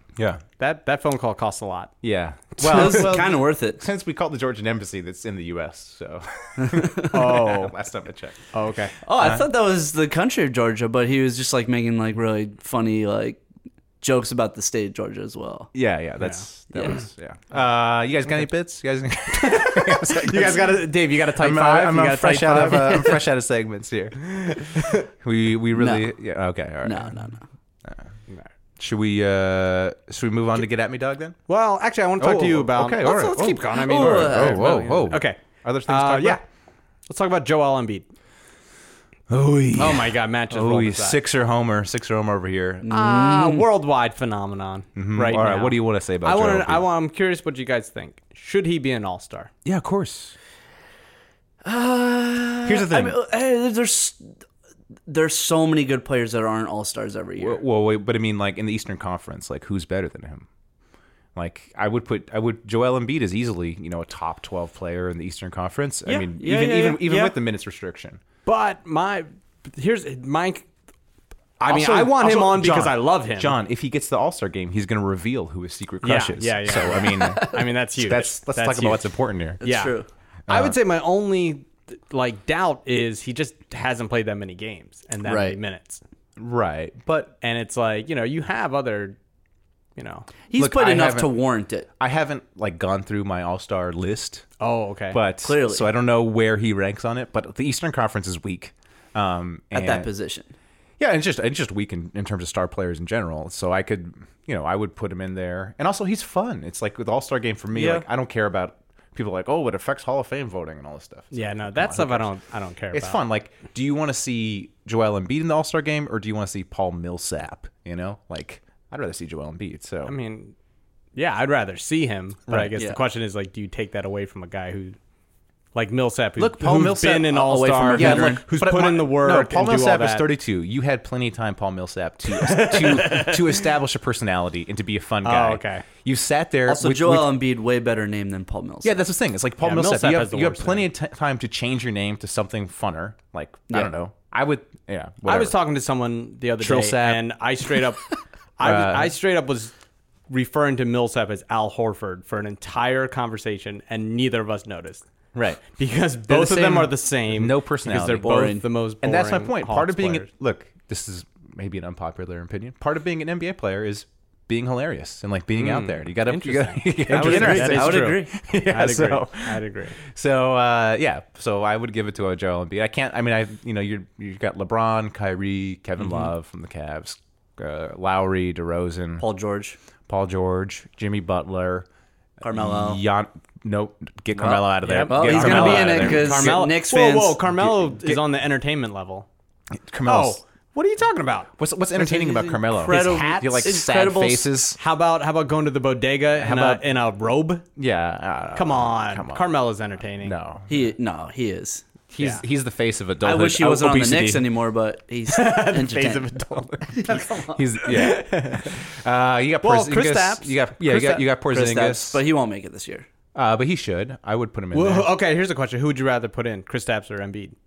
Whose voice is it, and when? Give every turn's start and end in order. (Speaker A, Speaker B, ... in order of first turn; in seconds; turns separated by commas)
Speaker A: 0.2-0.4, Speaker B: 0.6-1.9, Speaker A: 2.0-8.5, Speaker C: 2.6-3.8, Speaker B: 2.6-3.0, Speaker C: 6.6-7.1, Speaker B: 7.1-7.7, Speaker B: 8.5-8.9, Speaker C: 9.0-13.4, Speaker A: 9.2-9.4, Speaker C: 14.0-15.7, Speaker A: 15.7-27.3, Speaker B: 19.4-23.2, Speaker B: 24.4-25.0, Speaker C: 25.7-26.1, Speaker C: 26.8-27.4, Speaker A: 28.8-31.4, Speaker B: 31.5-36.4, Speaker A: 32.2-36.4, Speaker C: 33.7-34.8, Speaker B: 37.1-38.1, Speaker A: 39.3-42.9, Speaker B: 39.8-41.2, Speaker C: 42.8-43.6, Speaker B: 42.9-49.5, Speaker A: 45.0-46.9, Speaker A: 49.6-50.3, Speaker C: 51.6-54.3, Speaker A: 52.6-53.2, Speaker C: 55.1-57.6, Speaker A: 57.4-60.5, Speaker A: 61.3-68.2, Speaker C: 66.0-67.3, Speaker B: 68.5-70.7, Speaker A: 71.6-79.6, Speaker B: 71.6-73.5, Speaker B: 76.0-80.0, Speaker C: 79.6-80.1, Speaker A: 80.5-80.8, Speaker B: 80.5-86.0, Speaker C: 85.2-85.6, Speaker A: 86.4-87.3, Speaker B: 87.4-89.2, Speaker B: 90.0-90.3, Speaker C: 90.5-91.9, Speaker A: 90.5-91.3, Speaker A: 92.0-94.5, Speaker B: 94.6-95.2, Speaker A: 95.1-100.1, Speaker C: 95.4-95.9, Speaker C: 99.7-100.5, Speaker A: 101.0-112.3, Speaker C: 107.7-108.0, Speaker B: 111.3-113.2, Speaker A: 112.9-120.1, Speaker B: 120.0-120.5, Speaker B: 121.1-125.0, Speaker A: 122.5-122.7, Speaker B: 125.7-130.3, Speaker A: 126.4-137.3, Speaker C: 127.3-128.4, Speaker B: 132.3-133.6, Speaker B: 135.2-135.8, Speaker C: 136.7-139.0, Speaker A: 138.8-145.6, Speaker B: 139.6-140.9, Speaker B: 145.2-148.1, Speaker A: 146.6-147.3, Speaker B: 148.6-149.7, Speaker A: 148.6-149.1, Speaker B: 150.3-155.0, Speaker A: 155.3-155.6, Speaker B: 155.7-160.3, Speaker A: 156.2-158.4, Speaker C: 158.2-158.6, Speaker A: 159.0-179.2, Speaker B: 165.5-170.0, Speaker C: 167.1-168.3, Speaker B: 176.0-176.3, Speaker C: 179.2-179.8, Speaker A: 180.1-181.8, Speaker C: 182.4-183.0, Speaker A: 182.5-186.6, Speaker B: 184.7-189.3, Speaker C: 185.0-187.4, Speaker A: 187.4-188.2, Speaker A: 189.7-190.4, Speaker B: 190.0-193.5, Speaker A: 191.6-194.8, Speaker C: 192.8-194.5, Speaker B: 194.8-197.7, Speaker A: 196.4-196.9, Speaker A: 197.8-199.5, Speaker B: 198.5-200.3, Speaker A: 200.2-200.7, Speaker C: 200.7-201.9, Speaker A: 202.1-204.4, Speaker B: 202.2-202.4, Speaker C: 203.2-207.6, Speaker B: 205.3-207.3, Speaker A: 207.4-212.2, Speaker B: 207.8-208.8, Speaker B: 209.6-211.2, Speaker C: 211.3-213.1, Speaker A: 213.3-215.1, Speaker B: 214.7-217.5